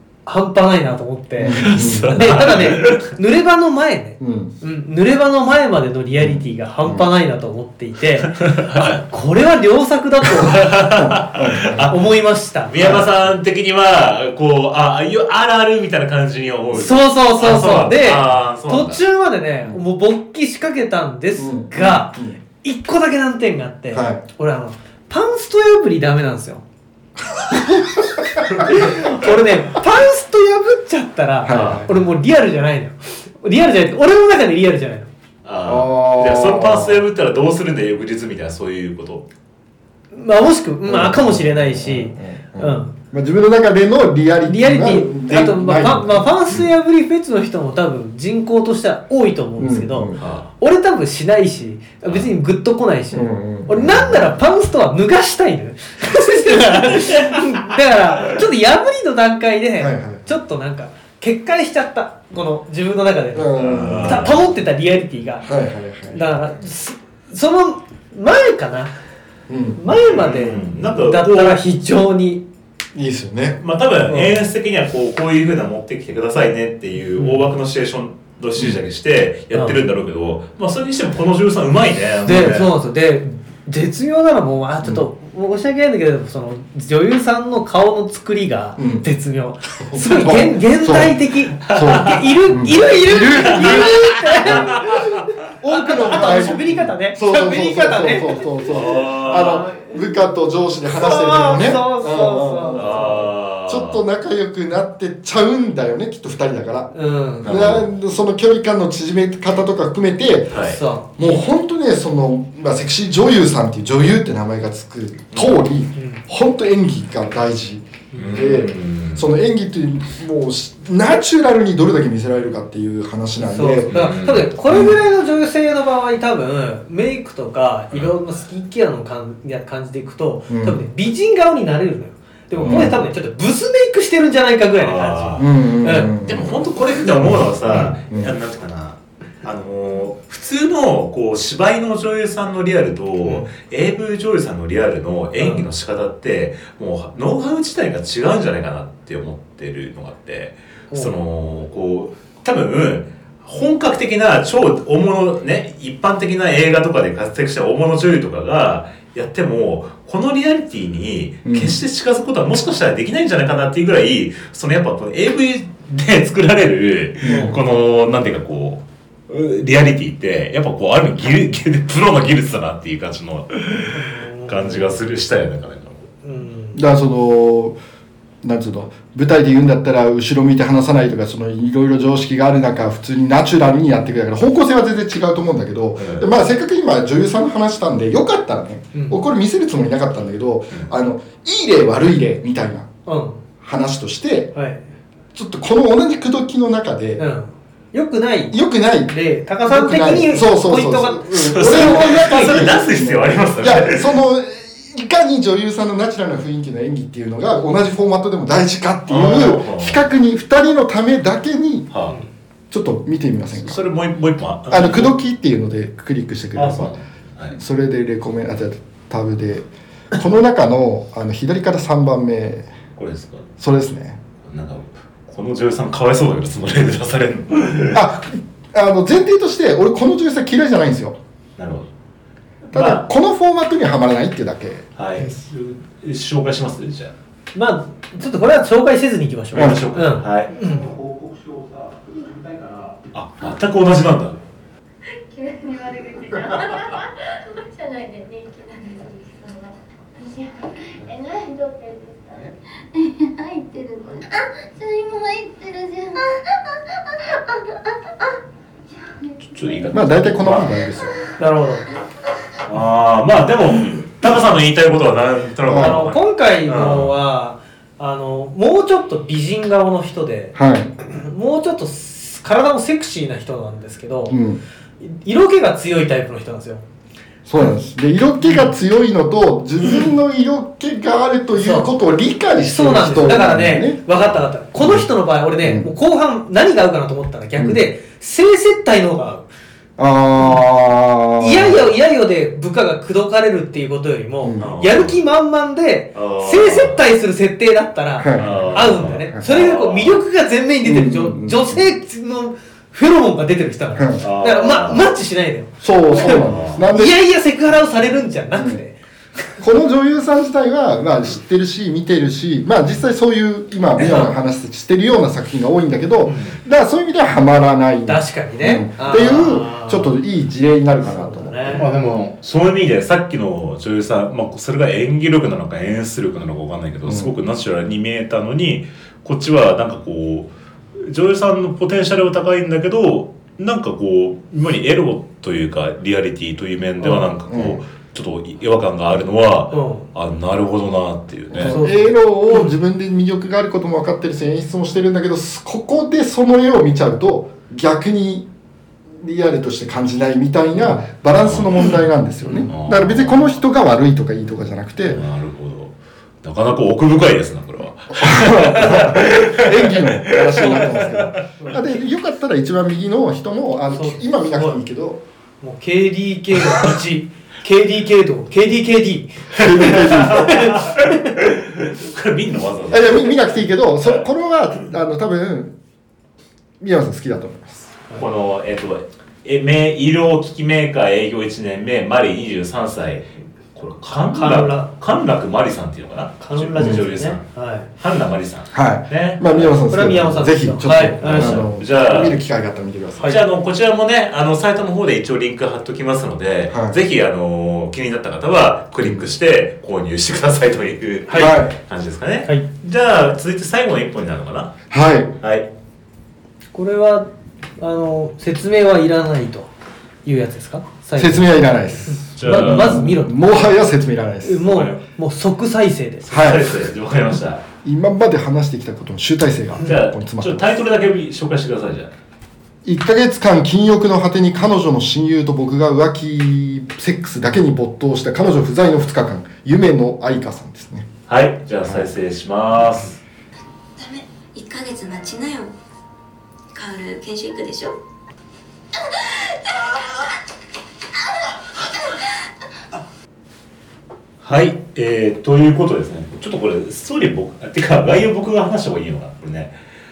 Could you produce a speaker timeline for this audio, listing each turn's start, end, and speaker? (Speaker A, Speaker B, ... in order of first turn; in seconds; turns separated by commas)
Speaker A: 0.3-10.6, Speaker B: 1.4-2.1, Speaker C: 1.6-3.1, Speaker B: 4.2-4.5, Speaker B: 6.2-7.1, Speaker C: 8.4-9.0, Speaker C: 10.4-12.1, Speaker B: 10.9-11.9, Speaker A: 11.9-12.7, Speaker C: 12.7-19.0, Speaker B: 12.8-13.1, Speaker A: 16.7-26.6, Speaker B: 21.4-22.4, Speaker B: 23.9-24.2, Speaker A: 27.5-35.1, Speaker B: 31.4-31.9, Speaker C: 31.5-31.9, Speaker C: 35.4-39.3, Speaker B: 35.7-37.0, Speaker A: 40.1-42.9, Speaker B: 40.9-46.3, Speaker A: 44.5-65.5, Speaker B: 49.6-50.2, Speaker C: 50.2-50.5, Speaker B: 53.1-54.3, Speaker B: 59.8-60.3, Speaker B: 63.4-64.3, Speaker C: 63.6-64.4, Speaker B: 65.4-66.2, Speaker A: 66.1-68.9, Speaker B: 69.5-69.8, Speaker A: 69.8-72.4, Speaker C: 70.0-71.6, Speaker B: 72.9-73.6, Speaker C: 73.6-82.7, Speaker A: 74.1-74.4, Speaker A: 77.2-77.4, Speaker A: 79.5-79.8, Speaker A: 82.3-95.0, Speaker B: 88.8-89.1, Speaker B: 89.8-123.9, Speaker C: 91.7-92.4, Speaker C: 93.3-95.2, Speaker A: 95.7-100.0, Speaker C: 98.7-99.6, Speaker A: 100.9-103.2, Speaker C: 102.7-104.0, Speaker A: 106.9-107.6, Speaker C: 107.5-107.9, Speaker C: 110.5-110.8, Speaker A: 110.7-111.0, Speaker C: 115.3-115.6, Speaker A: 116.0-116.2, Speaker C: 118.2-119.3, Speaker A: 123.4-136.1, Speaker C: 123.9-124.5, Speaker B: 130.5-130.8, Speaker C: 132.6-132.9, Speaker B: 132.6-133.0, Speaker C: 134.8-135.5, Speaker B: 135.4-136.6, Speaker C: 136.2-176.1, Speaker B: 137.3-138.3, Speaker A: 143.2-143.5, Speaker A: 145.4-145.7, Speaker B: 161.4-161.8, Speaker B: 167.2-167.6, Speaker A: 167.2-167.6, Speaker A: 173.9-174.9, Speaker A: 176.2-176.8, Speaker B: 176.7-177.8, Speaker B: 178.4-192.9, Speaker C: 186.0-186.2, Speaker A: 188.9-189.2, Speaker A: 193.1-193.4, Speaker B: 193.6-194.5, Speaker A: 194.6-194.8, Speaker B: 195.3-197.2, Speaker A: 197.2-202.8, Speaker B: 198.5-211.9, Speaker C: 201.4-204.2, Speaker C: 209.1-210.0, Speaker C: 211.9-212.2, Speaker B: 212.7-213.8, Speaker C: 213.6-215.2, Speaker B: 214.7-216.9, Speaker C: 216.6-217.6, Speaker B: 217.5-222.7, Speaker C: 223.0-223.5, Speaker B: 223.6-224.2, Speaker C: 224.4-228.0, Speaker B: 227.9-231.2, Speaker C: 231.6-231.9, Speaker C: 232.7-233.0, Speaker B: 232.7-234.8, Speaker C: 235.0-237.1, Speaker A: 237.6-240.9, Speaker B: 239.5-239.8, Speaker C: 239.5-241.2, Speaker C: 243.1-244.4, Speaker D: 245.1-258.4, Speaker D: 259.1-259.8, Speaker C: 259.4-260.7, Speaker B: 259.9-261.1, Speaker A: 261.4-261.9, Speaker C: 262.6-267.1, Speaker B: 265.7-266.1, Speaker A: 265.8-274.4, Speaker B: 270.6-270.9, Speaker B: 274.3-274.6, Speaker A: 275.0-276.8, Speaker B: 277.5-284.0, Speaker A: 278.4-278.7, Speaker A: 281.6-281.9, Speaker A: 282.6-289.5, Speaker B: 284.8-285.1, Speaker B: 285.6-285.9, Speaker B: 287.6-287.8, Speaker B: 290.0-291.8, Speaker A: 290.4-290.6, Speaker A: 291.4-309.0, Speaker B: 294.4-294.7, Speaker C: 294.6-295.2, Speaker C: 296.1-297.0, Speaker B: 298.2-299.5, Speaker C: 298.4-300.2, Speaker B: 300.8-301.9, Speaker B: 304.0-304.2, Speaker C: 304.2-305.1, Speaker B: 305.8-307.2, Speaker C: 306.2-306.8, Speaker B: 308.6-308.8, Speaker B: 309.6-321.9, Speaker C: 314.0-314.3, Speaker C: 316.3-316.6, Speaker A: 318.1-320.1, Speaker A: 321.0-321.9, Speaker C: 321.7-341.8, Speaker B: 327.1-327.3, Speaker A: 337.0-337.3, Speaker B: 337.5-337.8, Speaker A: 339.7-340.1, Speaker B: 341.5-348.5, Speaker A: 341.6-342.8, Speaker B: 349.2-355.2, Speaker C: 351.4-352.0, Speaker C: 352.7-353.4, Speaker C: 355.0-361.4, Speaker B: 358.2-365.2, Speaker A: 361.6-361.9, Speaker A: 363.9-364.8, Speaker A: 365.6-371.2, Speaker B: 369.5-370.7, Speaker C: 369.6-373.4, Speaker B: 372.9-375.8, Speaker B: 376.8-377.9, Speaker C: 378.2-389.8, Speaker A: 384.3-384.9, Speaker A: 386.4-387.9, Speaker B: 386.8-387.1, Speaker B: 388.7-393.4, Speaker A: 389.9-391.7, Speaker C: 391.2-392.4, Speaker C: 393.2-404.8, Speaker B: 396.7-397.0, Speaker A: 401.3-401.6, Speaker B: 401.4-401.8, Speaker B: 404.9-405.3, Speaker C: 405.4-405.7, Speaker A: 406.7-409.7, Speaker A: 410.2-413.7, Speaker B: 411.2-414.6, Speaker C: 412.4-413.1, Speaker A: 414.4-416.5, Speaker C: 414.7-415.0, Speaker C: 416.3-417.6, Speaker B: 416.3-416.8, Speaker B: 417.8-420.7, Speaker C: 419.8-422.1, Speaker B: 422.9-431.1, Speaker C: 431.3-433.2, Speaker E: 434.0-435.8, Speaker E: 436.7-437.9, Speaker E: 439.8-440.2, Speaker C: 444.4-449.8